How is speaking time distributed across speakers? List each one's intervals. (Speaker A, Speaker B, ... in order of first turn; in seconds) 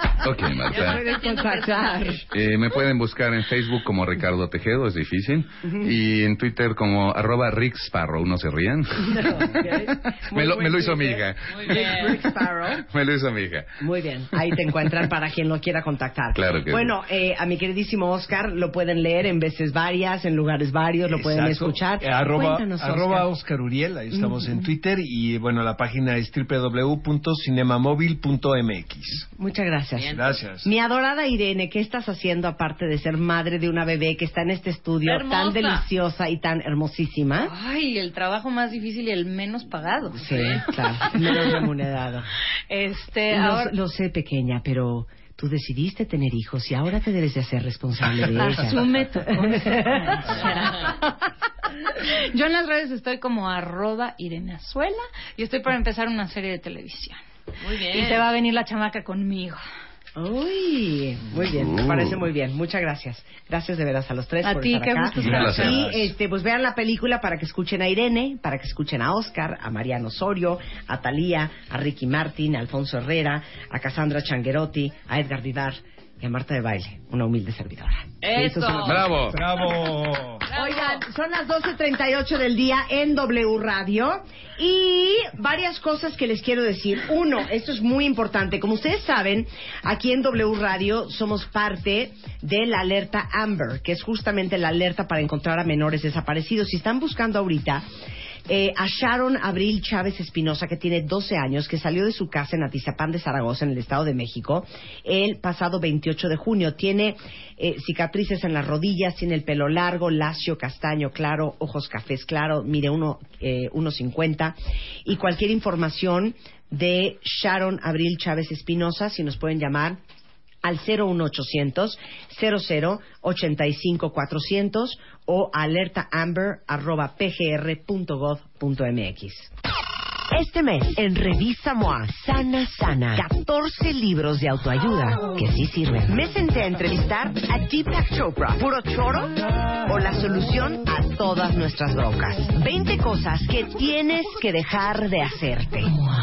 Speaker A: 0.2-1.0, 2.3-9.3, 10.3-11.7, 12.9-13.7, 16.3-16.9, 61.5-62.2, 65.2-65.9, 78.8-79.4
Speaker B: 0.7-2.2, 11.5-12.2, 30.0-30.4, 35.0-35.9, 40.3-40.6, 57.6-58.2, 78.2-79.1, 80.5-81.0
Speaker C: 0.7-2.2, 5.6-5.9, 9.0-12.8, 13.8-23.3, 24.1-24.6, 29.4-37.5, 40.1-42.3, 43.3-50.1, 60.2-79.1, 80.5-97.8, 98.5-120.0, 120.6-129.5, 130.3-139.3, 139.9-145.9
Speaker D: 21.1-29.3, 30.1-30.7, 65.3-65.9, 79.3-80.5
Speaker E: 37.4-40.2, 42.7-43.7, 48.5-51.0, 52.1-57.2, 57.9-59.6, 64.4-65.8